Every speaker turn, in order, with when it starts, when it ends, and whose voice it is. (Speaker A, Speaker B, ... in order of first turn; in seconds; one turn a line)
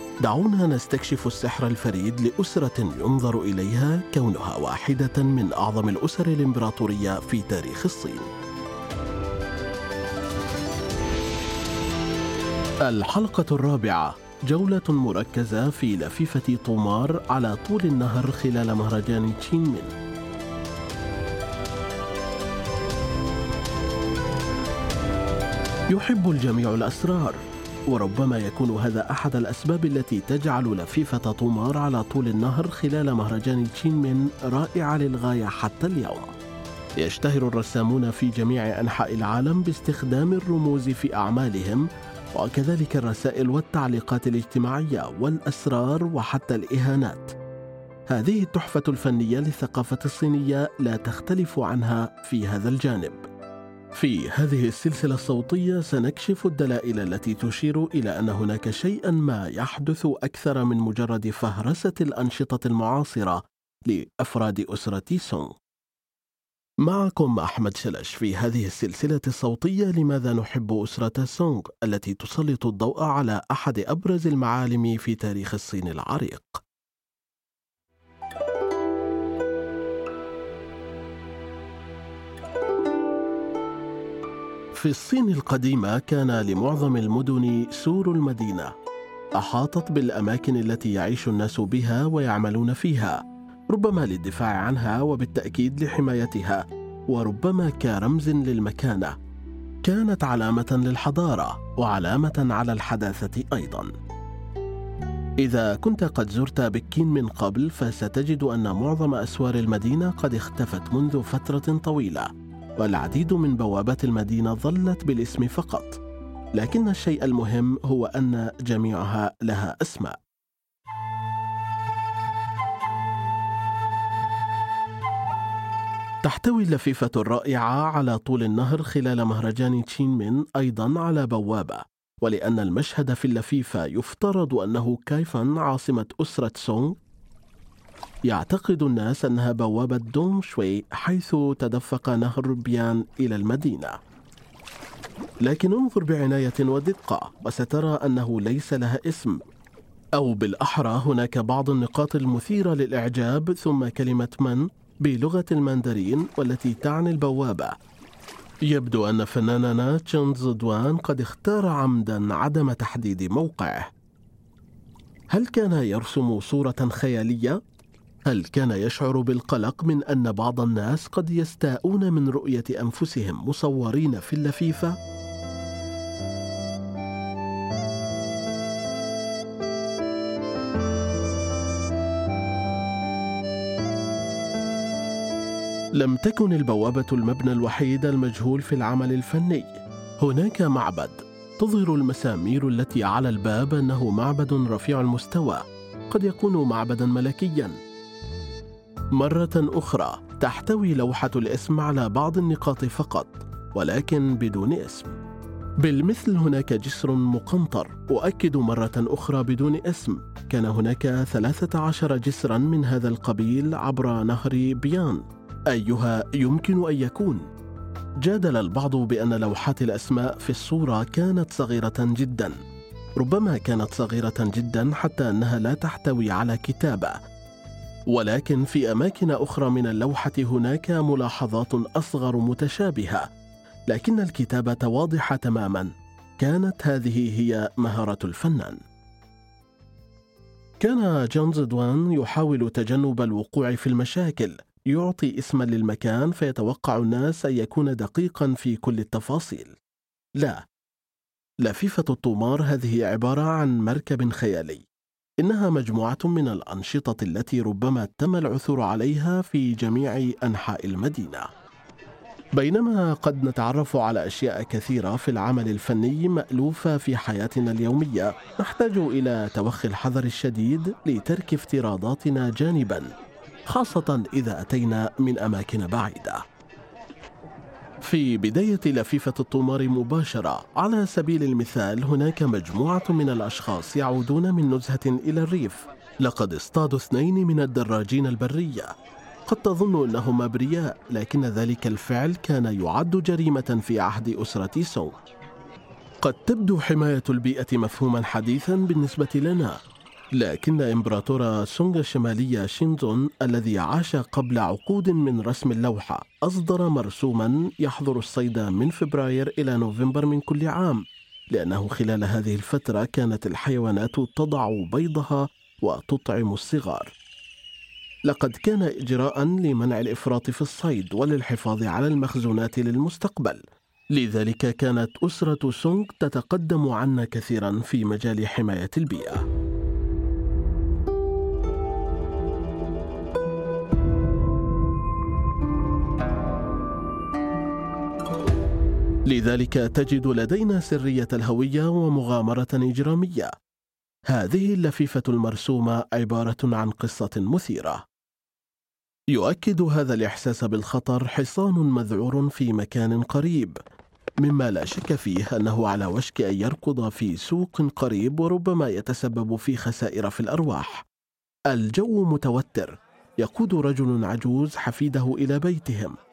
Speaker A: 0.2-8.3
Speaker A: 12.8-19.9
Speaker A: 25.9-36.3
Speaker A: 37.0-47.3
Speaker A: 48.1-53.2
Speaker A: 53.9-65.5
Speaker A: 66.8-76.6
Speaker A: 84.7-88.7
Speaker A: 89.4-99.2
Speaker A: 99.8-103.9
Speaker A: 105.4-116.0
Speaker A: 116.5-120.2
Speaker A: 126.2-136.9
Speaker A: 138.3-144.0
Speaker A: 145.4-149.4
Speaker A: 150.2-157.7
Speaker A: 158.7-163.9
Speaker A: 165.3-167.6
Speaker A: 168.2-175.0
Speaker A: 185.9-197.8
Speaker A: 199.1-205.2
Speaker A: 205.8-217.4
Speaker A: 218.2-222.6
Speaker A: 223.2-227.2
Speaker A: 228.1-233.3
Speaker A: 233.9-238.8
Speaker A: 240.8-249.8
Speaker A: 251.6-254.8
Speaker A: 255.4-261.5
Speaker A: 262.6-273.1
Speaker A: 273.7-276.4
Speaker A: 278.0-288.9
Speaker A: 289.5-295.2
Speaker A: 296.2-299.8
Speaker A: 300.4-317.1
Speaker A: 318.3-323.6
Speaker A: 324.1-329.4
Speaker A: 339.3-343.5
Speaker A: 344.3-348.0
Speaker A: 349.3-353.8
Speaker A: 354.4-361.1
Speaker A: 361.7-366.1